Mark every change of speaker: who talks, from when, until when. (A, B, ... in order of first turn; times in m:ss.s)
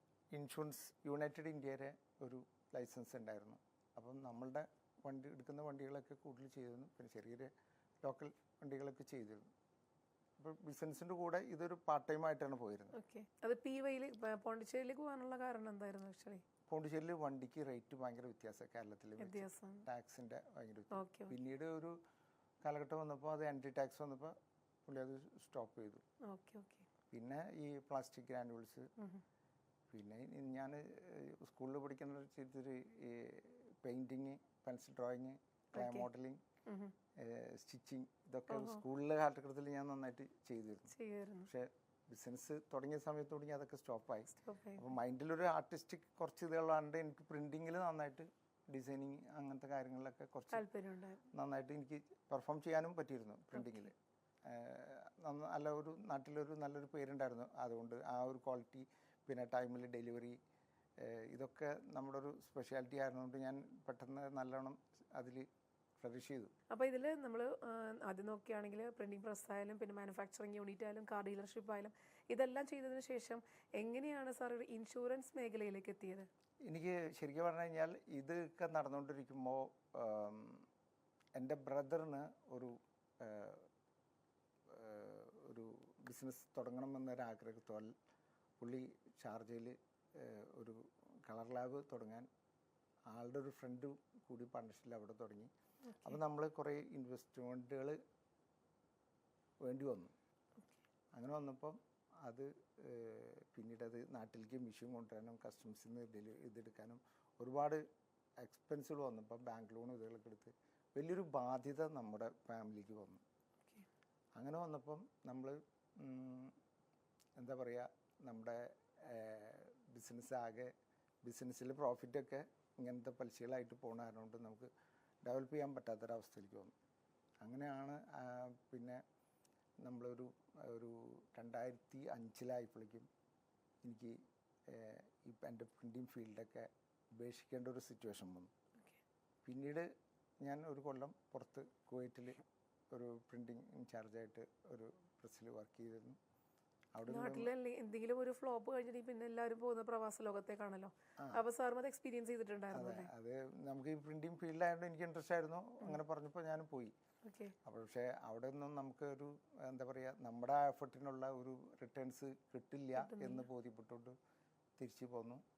0:00.3-0:07.5 A
0:08.0-0:09.4 A
0:10.4-0:13.0 A
0:12.9-0:16.4 B
0:16.7-0:22.0 A
0:19.2-0:19.8 B
0:20.9-0:21.3 B
0:22.6-0:24.3 A
0:24.8-0:26.0 A
0:26.2-0:26.8 B
0:27.1-0:28.9 A
0:29.9-0:36.4 A
0:35.7-0:36.1 B
0:36.7-0:36.9 B
0:37.2-0:40.9 A
0:38.5-0:38.8 B
0:40.9-0:41.5 B
0:41.4-0:50.6 A
0:44.3-0:44.8 B
0:50.5-0:51.2 B
0:51.3-1:00.4 A
0:53.5-0:53.9 B
1:01.0-1:05.5 A
1:06.0-1:06.5 A
1:06.7-1:16.3 B
1:16.7-1:20.7 A
1:21.4-1:23.7 A
1:24.7-1:27.9 A
1:28.6-1:32.3 A
1:33.1-1:35.5 A
1:35.9-1:36.2 B
1:36.0-1:38.0 A
1:39.6-1:40.1 A
1:41.1-1:47.8 A
1:48.4-1:53.2 A
1:54.4-1:56.5 A
1:57.4-2:00.7 A
2:01.2-2:04.7 A
2:05.2-2:06.7 A
2:07.4-2:09.0 A
2:09.8-2:13.1 A
2:13.8-2:18.5 A
2:19.4-2:19.9 A
2:20.4-2:26.2 A
2:27.0-2:27.5 A
2:27.1-2:33.1 B
2:31.2-2:31.4 A
2:32.7-2:36.9 A
2:37.2-2:37.5 B
2:37.6-2:44.1 A
2:43.0-2:43.4 B
2:44.8-2:45.4 A